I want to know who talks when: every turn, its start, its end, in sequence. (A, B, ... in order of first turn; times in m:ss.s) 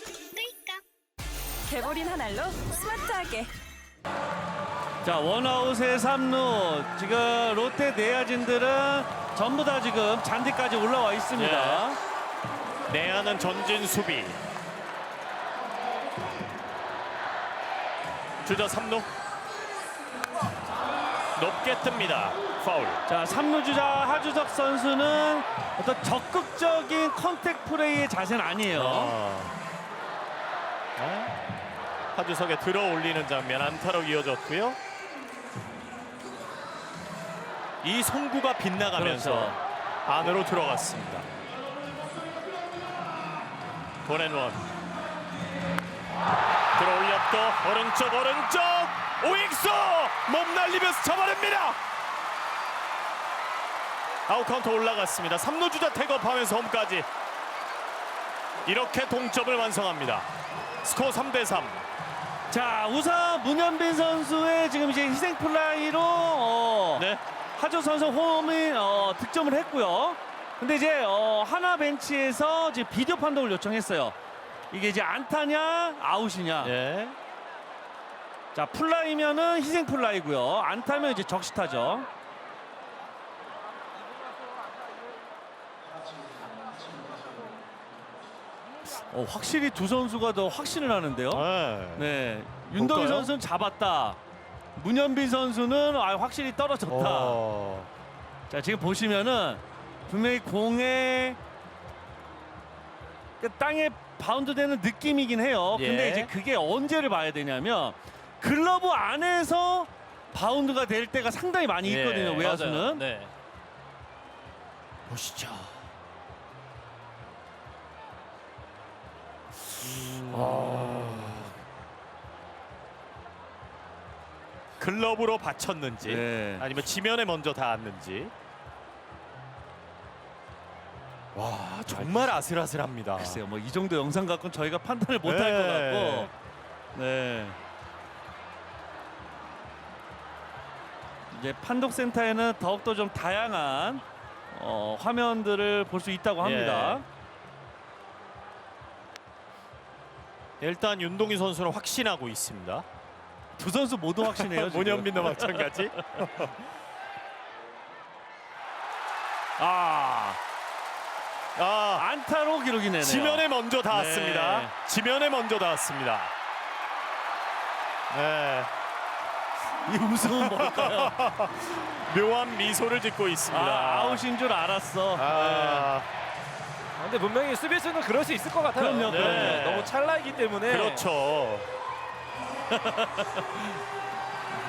0:00.3-0:00.8 A
0:01.6-0:03.5 A
0:05.0-0:12.0 B
0:11.3-0:11.8 C
0:12.9-0:14.4 C
0:18.4-0:19.1 C
0:21.4-0:23.0 C
0:23.1-0:29.2 B
0:28.7-0:29.5 C
0:31.0-0:31.3 C
0:32.1-0:34.8 C
0:37.8-0:39.5 C
0:38.9-0:39.6 B
0:40.0-0:41.2 C
0:44.0-0:44.6 C
0:46.8-0:51.8 C
0:54.3-0:57.1 C
0:58.6-1:00.3 C
1:00.8-1:01.8 C
1:02.5-1:14.2 B
1:06.9-1:07.2 C
1:14.7-1:16.7 B
1:16.6-1:17.2 C
1:18.5-1:22.1 B
1:29.0-1:34.2 B
1:31.3-1:32.1 C
1:32.7-1:33.3 C
1:34.8-1:37.4 B
1:36.8-1:37.9 C
1:38.5-1:41.4 B
1:43.4-1:53.1 B
1:45.7-1:46.3 C
1:51.8-1:52.7 C
1:52.3-1:53.3 D
1:55.1-1:55.7 C
1:59.8-2:01.5 C
2:00.3-2:01.4 B
2:04.8-2:08.3 C
2:06.0-2:06.8 B
2:11.3-2:13.4 C
2:11.9-2:12.4 B
2:13.2-2:16.3 B
2:15.2-2:16.3 C
2:16.9-2:17.6 B
2:21.3-2:27.0 B
2:26.4-2:27.0 C
2:30.6-2:32.8 C
2:33.6-2:35.9 B
2:34.2-2:36.5 C
2:39.6-2:40.4 B
2:41.6-2:42.0 C
2:41.9-2:44.7 B
2:43.0-2:46.3 C
2:48.1-2:48.7 C
2:49.8-2:51.2 B
2:50.4-2:54.2 C
2:53.5-2:55.9 B
2:55.2-2:56.0 C
2:57.0-3:01.1 D
2:58.8-2:59.9 B
2:59.0-2:59.9 C
3:00.6-3:01.7 C
3:02.9-3:03.4 B